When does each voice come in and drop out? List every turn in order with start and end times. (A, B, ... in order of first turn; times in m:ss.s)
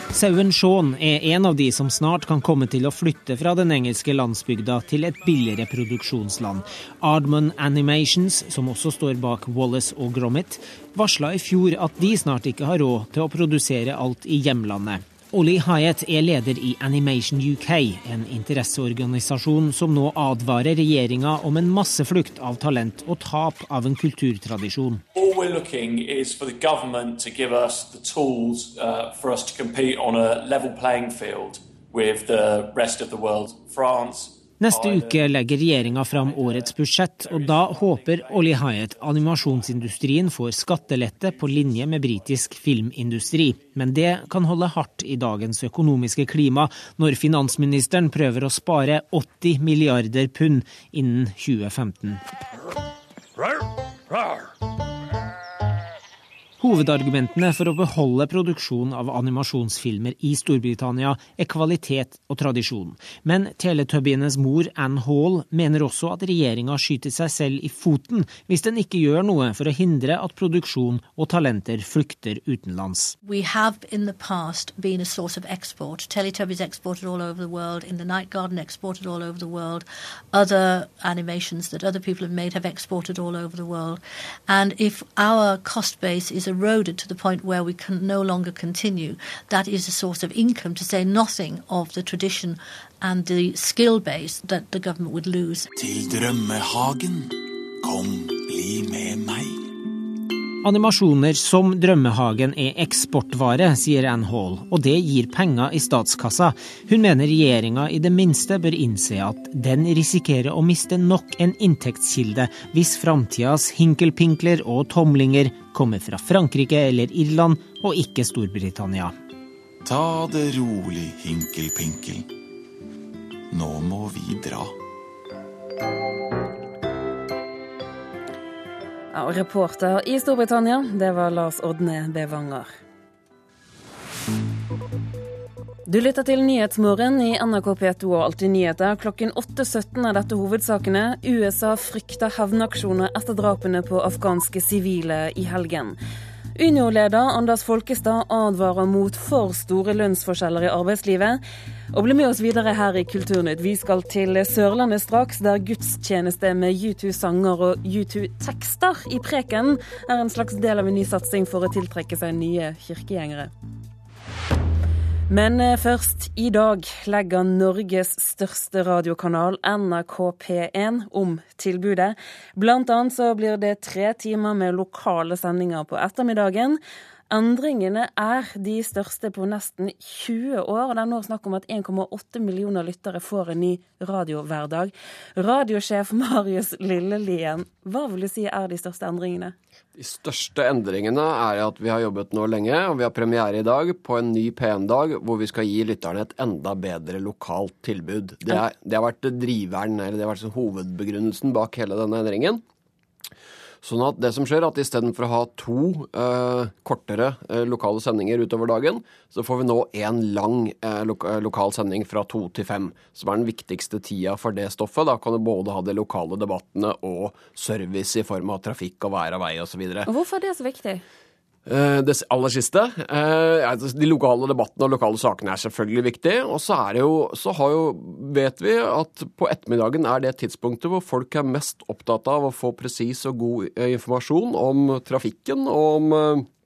0:00.1-0:25.0 A
0:25.2-0:35.3 B
0:34.6-0:52.2 A
0:56.6-1:13.2 A
1:13.2-1:35.7 C
1:35.8-1:39.6 D
1:40.6-1:59.2 A
1:59.8-2:02.3 D
2:03.5-2:04.7 D
2:09.1-2:12.7 E
2:15.9-2:26.0 E
2:26.6-2:31.4 E
2:31.9-2:43.5 E
2:45.3-3:09.6 E
3:10.0-3:22.6 F
3:23.8-3:40.1 F
3:40.1-3:41.0 E
3:41.7-3:56.5 F